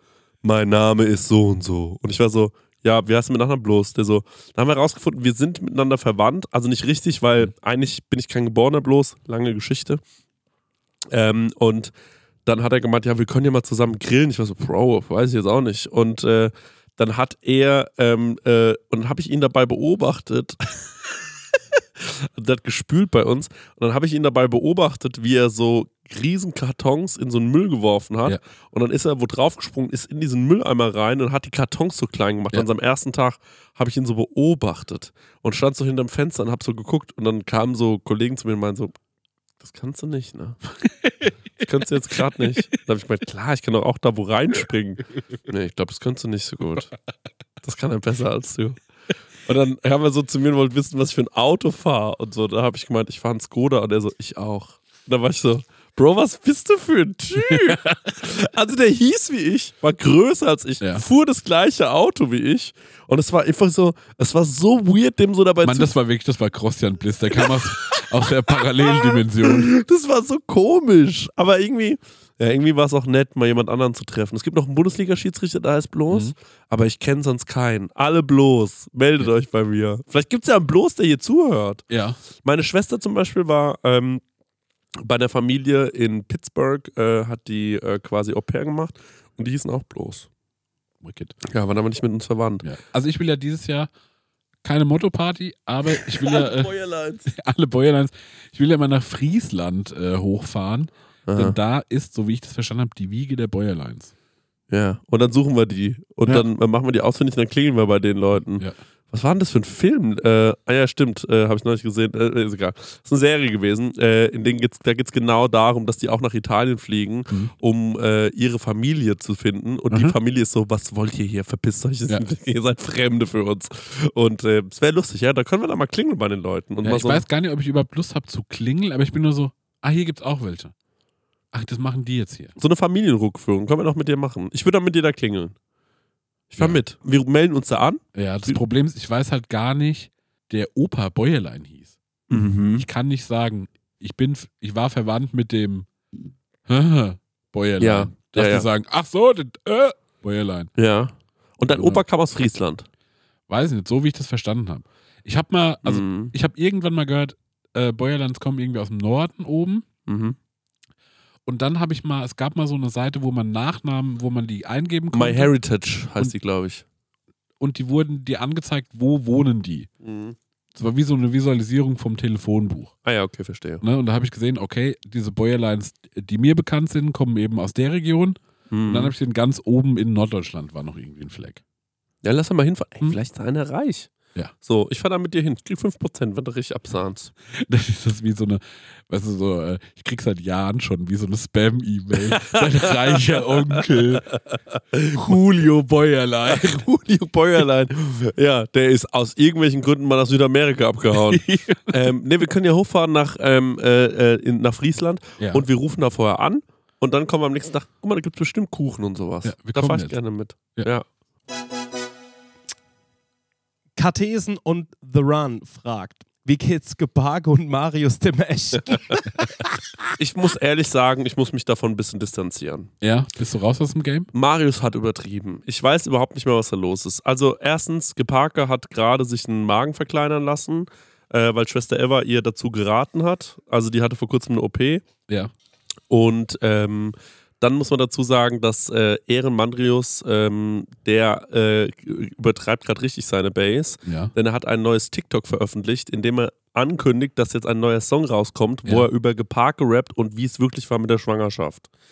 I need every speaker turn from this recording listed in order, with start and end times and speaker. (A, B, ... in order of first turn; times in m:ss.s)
0:00.4-0:10.0 A
0:11.1-0:11.9 A
0:12.4-0:20.9 A
0:22.0-0:38.9 A
0:39.6-0:40.6 A
0:40.8-0:42.6 B
0:41.6-0:46.9 A
0:47.6-0:48.8 A
0:49.4-1:05.9 A
0:57.4-0:57.9 B
1:05.6-1:09.7 B
1:07.4-1:08.0 A
1:08.6-1:21.8 A
1:21.9-1:22.2 B
1:22.4-1:24.2 A
1:25.0-1:30.3 A
1:31.0-1:31.3 B
1:31.4-1:32.6 A
1:32.6-1:33.9 B
1:34.6-1:36.7 B
1:35.9-1:37.3 A
1:37.3-1:44.1 B
1:41.3-1:41.6 A
1:44.7-2:07.2 A
1:48.5-1:48.7 B
1:59.9-2:00.2 B
2:06.8-2:10.7 B
2:11.5-2:12.5 B
2:12.6-2:15.5 A
2:16.5-2:18.6 A
2:18.1-2:22.0 B
2:22.3-2:22.8 A
2:22.7-2:25.9 B
2:26.7-2:30.7 B
2:27.8-2:28.7 A
2:30.8-2:32.8 A
2:31.7-2:32.0 B
2:33.5-2:39.8 B
2:35.8-2:36.3 A
2:40.1-2:40.4 A
2:41.4-2:45.5 B
2:45.1-2:46.8 A
2:47.6-2:49.9 B
2:50.0-2:50.4 A
2:50.7-2:52.9 B
2:53.0-2:53.8 A
2:53.8-3:01.6 B
2:58.7-2:59.1 A
3:02.2-3:04.1 A
3:04.6-3:07.3 A
3:07.5-3:14.3 B
3:12.4-3:13.2 A
3:14.9-3:15.4 A
3:15.1-3:16.8 B
3:16.4-3:31.0 A
3:21.1-3:22.1 B
3:25.4-3:25.6 B
3:29.4-3:30.2 B
3:34.0-3:39.4 C
3:40.2-3:42.9 A
3:43.0-3:44.3 B
3:44.3-3:55.0 A
3:56.1-4:11.9 A
4:04.0-4:04.3 B